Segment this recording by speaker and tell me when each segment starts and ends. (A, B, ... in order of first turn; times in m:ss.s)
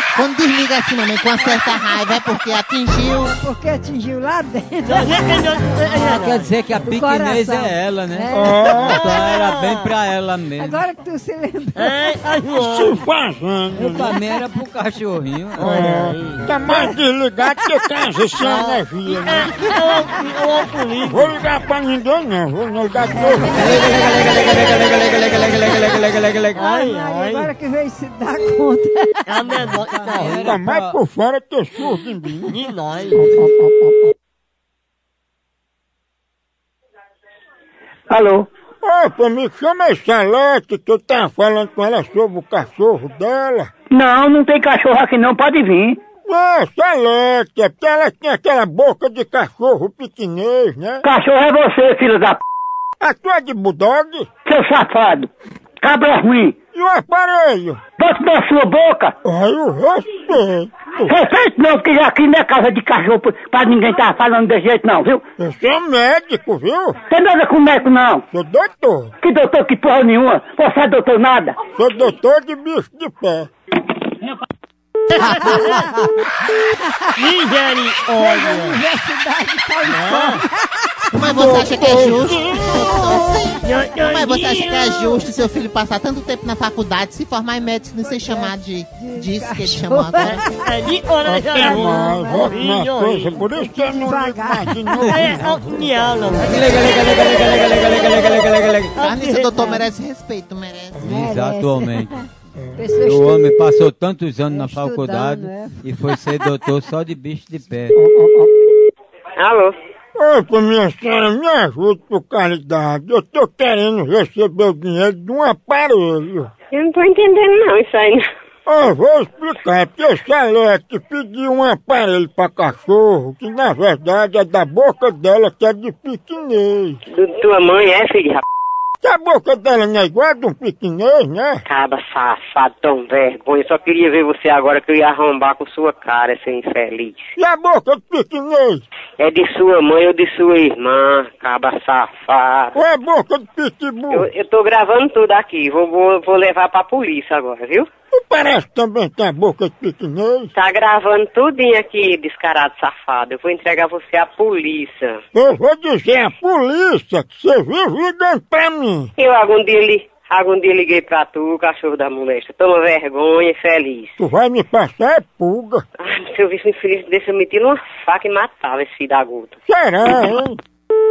0:00.1-0:03.3 A
0:03.2-0:08.9 B
0:04.8-0:06.6 C
0:06.1-0:10.8 D
0:08.3-0:09.1 E
0:08.7-0:10.0 C
0:10.6-0:12.2 B
0:11.8-0:13.0 C
0:12.6-0:14.2 E
0:13.8-0:16.0 D
0:15.6-0:16.9 C
0:15.6-0:19.7 E
0:18.4-0:21.4 C
0:21.1-0:23.9 E
0:23.2-0:23.7 B
0:23.6-0:26.6 D
0:26.5-0:27.5 C
0:26.6-0:29.7 B
0:29.2-0:30.5 C
0:29.5-0:31.0 D
0:30.2-0:32.6 E
0:32.4-0:33.2 C
0:33.1-0:34.1 E
0:38.1-0:38.5 F
0:38.8-0:43.7 E
0:43.9-0:46.0 F
0:46.2-0:51.1 E
0:51.0-0:52.4 F
0:53.0-0:54.3 E
0:54.4-0:55.3 F
0:55.8-0:56.5 F
0:56.7-0:57.8 E
0:58.0-0:59.1 F
0:59.2-1:01.1 E
1:01.1-1:05.2 F
1:05.4-1:07.0 E
1:07.1-1:08.2 F
1:08.3-1:09.1 E
1:09.2-1:11.6 F
1:11.7-1:13.5 E
1:15.1-1:15.8 C
1:15.4-1:15.7 A
1:15.4-1:15.9 B
1:16.8-1:17.2 B
1:17.2-1:18.8 C
1:18.1-1:21.7 B
1:19.8-1:20.4 C
1:21.1-1:30.4 A
1:21.2-1:22.7 E
1:22.6-1:23.6 B
1:23.6-1:25.2 C
1:27.9-1:30.7 B
1:30.5-1:33.5 C
1:31.2-1:36.6 E
1:32.1-1:32.6 B
1:33.5-1:35.2 B
1:35.0-1:35.4 D
1:35.0-1:38.3 C
1:36.4-1:39.0 D
1:39.0-1:41.4 A
1:39.0-1:39.4 C
1:39.4-1:39.9 B
1:41.0-1:42.2 D
1:41.1-1:42.2 B
1:42.6-1:42.9 E
1:42.8-1:43.7 B
1:43.0-1:47.9 D
1:44.5-1:46.6 B
1:47.9-1:48.7 E
1:49.4-1:49.7 G
1:50.2-1:56.5 E
1:56.7-1:58.2 G
1:58.6-2:07.0 E
2:07.1-2:08.4 G
2:09.0-2:11.6 E
2:11.7-2:17.3 G
2:17.4-2:18.8 E
2:19.2-2:22.7 G
2:22.7-2:24.3 E
2:24.1-2:27.9 G
2:28.1-2:30.5 E
2:30.5-2:35.2 G
2:35.3-2:39.1 E
2:39.2-2:44.1 G
2:44.2-2:45.8 E
2:46.0-2:49.5 G
2:49.7-2:50.6 E